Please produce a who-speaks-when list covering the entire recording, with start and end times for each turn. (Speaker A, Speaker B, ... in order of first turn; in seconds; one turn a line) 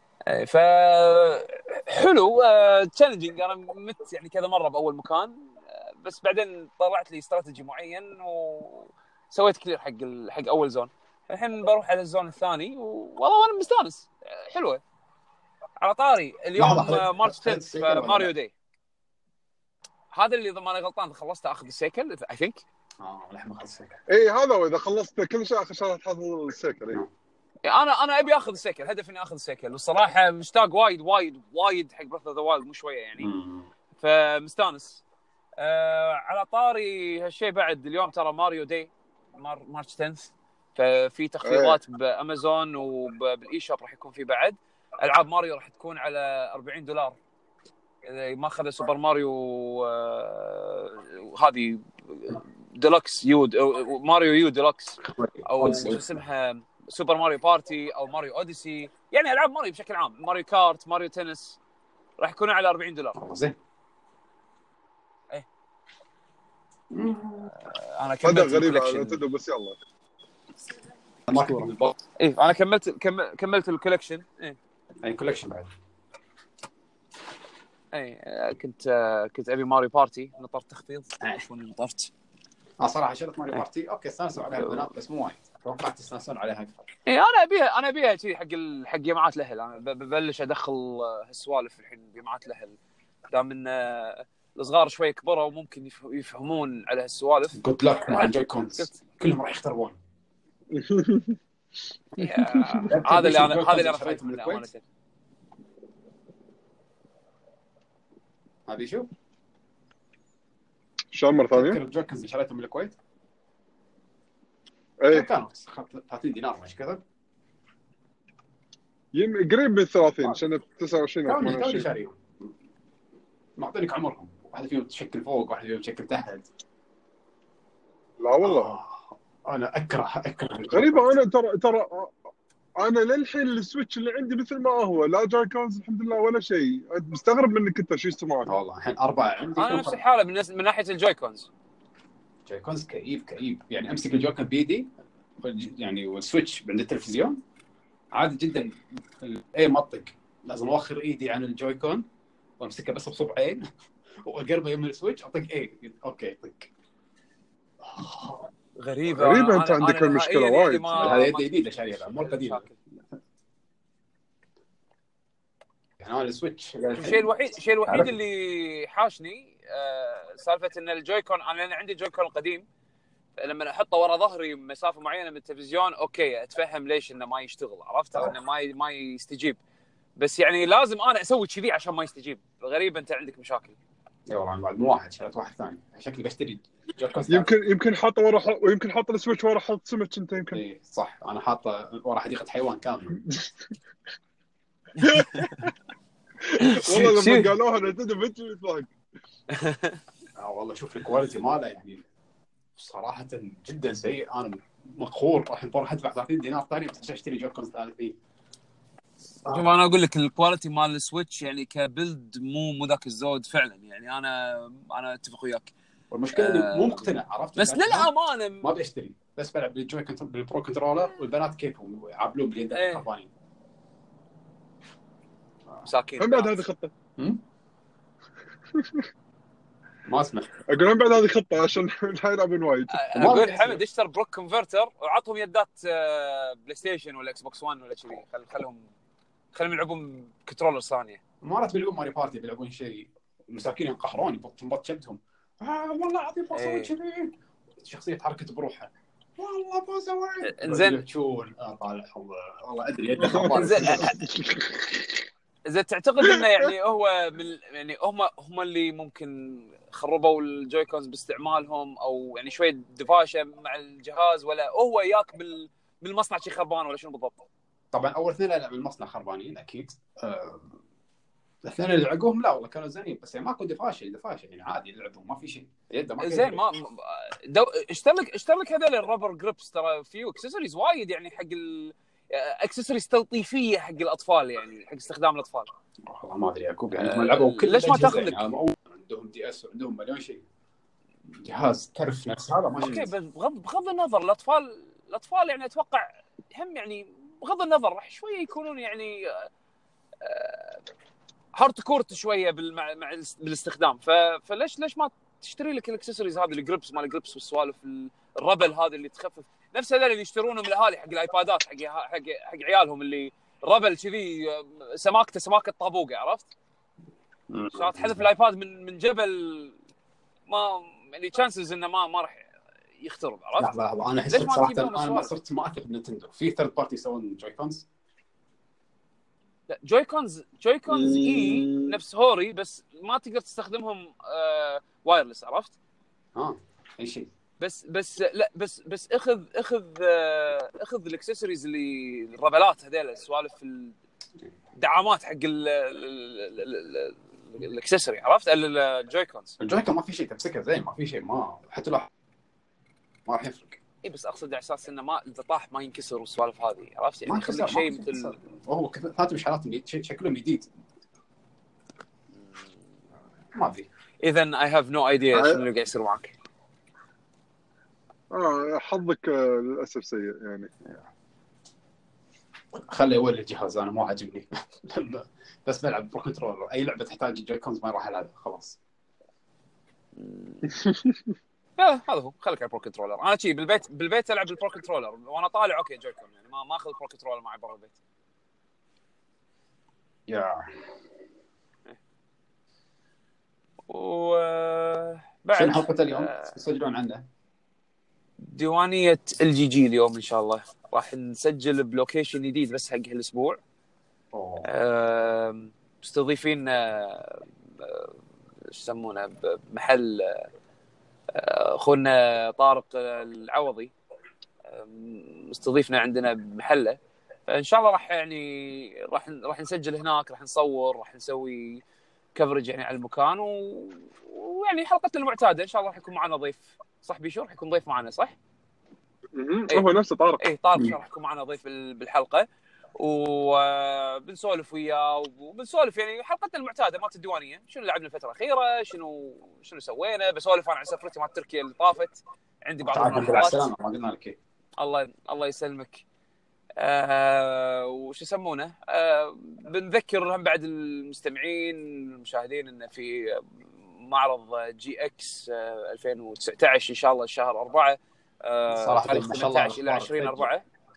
Speaker A: 0.3-14.8
Speaker A: 15.8-18.5
Speaker B: 16.6-18.3
Speaker A: 20.1-22.6
Speaker B: 23.0-24.0
Speaker C: 24.1-27.0
Speaker A: 27.6-33.3
Speaker B: 33.2-33.7
Speaker A: 34.0-35.0
Speaker A: 35.6-47.2
Speaker C: 41.4-41.8
Speaker A: 48.0-61.6
Speaker B: 55.0-56.2
Speaker A: 62.2-63.2
Speaker B: 63.2-63.6
Speaker B: 66.9-67.5
Speaker A: 67.6-69.2
Speaker C: 68.2-69.8
Speaker B: 71.3-72.0
Speaker C: 71.3-71.7
Speaker A: 72.2-74.6
Speaker B: 75.0-75.7
Speaker A: 77.9-82.1
Speaker B: 82.8-86.9
Speaker A: 84.6-84.8
Speaker A: 87.1-92.8
Speaker A: 93.3-97.6
Speaker B: 97.5-100.0
Speaker A: 98.1-99.0
Speaker C: 100.7-101.4
Speaker A: 102.2-104.8
Speaker C: 102.6-102.9
Speaker B: 102.8-104.7
Speaker B: 108.7-109.1
Speaker C: 111.1-111.8
Speaker B: 111.5-113.0
Speaker C: 115.0-115.3
Speaker B: 115.1-117.0
Speaker C: 119.1-121.9
Speaker B: 121.3-122.2
Speaker B: 123.6-126.5
Speaker C: 128.2-128.7
Speaker B: 128.4-131.2
Speaker C: 130.7-132.1
Speaker C: 132.8-138.5
Speaker B: 138.5-140.0
Speaker A: 139.6-141.5
Speaker B: 142.5-144.9
Speaker B: 145.4-147.4
Speaker B: 148.1-152.1
Speaker B: 152.6-156.7
Speaker B: 157.8-158.5
Speaker A: 158.8-162.8
Speaker C: 159.1-161.2
Speaker B: 161.0-162.7
Speaker B: 166.0-167.3
Speaker A: 167.0-172.7
Speaker B: 167.9-168.1
Speaker A: 173.4-179.6
Speaker A: 180.2-183.8
Speaker B: 184.3-187.5
Speaker C: 187.3-190.6
Speaker B: 190.5-193.2
Speaker C: 195.0-195.7
Speaker C: 196.5-198.9
Speaker A: 196.6-197.5
Speaker A: 199.5-200.0
Speaker B: 200.4-202.1
Speaker B: 202.8-208.2
Speaker B: 209.4-209.8
Speaker A: 209.5-215.7
Speaker B: 216.1-223.3
Speaker A: 216.3-218.7
Speaker A: 222.7-223.1
Speaker A: 225.8-226.6
Speaker C: 226.2-226.9
Speaker B: 227.2-227.4
Speaker C: 228.8-229.0
Speaker B: 230.1-230.5
Speaker C: 230.7-233.0
Speaker A: 232.9-238.9
Speaker B: 233.1-233.8
Speaker A: 239.5-241.2
Speaker B: 241.4-254.1
Speaker A: 246.5-246.9
Speaker A: 250.4-251.0
Speaker C: 253.2-255.1
Speaker A: 253.4-254.3
Speaker A: 255.7-267.4
Speaker B: 267.9-270.8
Speaker B: 271.6-276.6
Speaker A: 276.2-285.7
Speaker B: 286.1-290.4
Speaker A: 286.9-288.5
Speaker B: 291.3-293.1
Speaker A: 292.8-299.5
Speaker A: 300.2-300.8
Speaker A: 301.5-316.5
Speaker B: 317.5-318.3
Speaker A: 317.8-319.8
Speaker A: 320.5-322.5
Speaker A: 323.0-323.7
Speaker B: 323.6-327.9
Speaker A: 324.3-325.3
Speaker A: 329.7-335.8
Speaker C: 330.9-331.9
Speaker B: 336.4-337.3
Speaker A: 337.6-344.0
Speaker A: 344.8-349.6
Speaker B: 349.6-352.1
Speaker B: 353.3-353.8
Speaker A: 354.0-358.3
Speaker B: 357.3-360.7
Speaker B: 363.5-363.9
Speaker A: 364.2-366.3
Speaker C: 365.3-365.6
Speaker C: 368.3-370.7
Speaker B: 372.7-378.8
Speaker A: 380.2-380.7
Speaker A: 381.8-388.0
Speaker B: 390.3-390.8
Speaker A: 393.9-396.5
Speaker B: 395.5-397.2
Speaker A: 398.4-403.6
Speaker B: 404.3-404.7
Speaker A: 404.6-408.1
Speaker A: 408.7-410.5
Speaker A: 411.3-413.9
Speaker A: 414.7-421.8
Speaker A: 422.4-428.4
Speaker C: 429.4-430.4
Speaker A: 430.4-443.7
Speaker B: 442.9-444.4
Speaker A: 444.8-446.0
Speaker A: 446.8-460.6
Speaker B: 458.7-460.5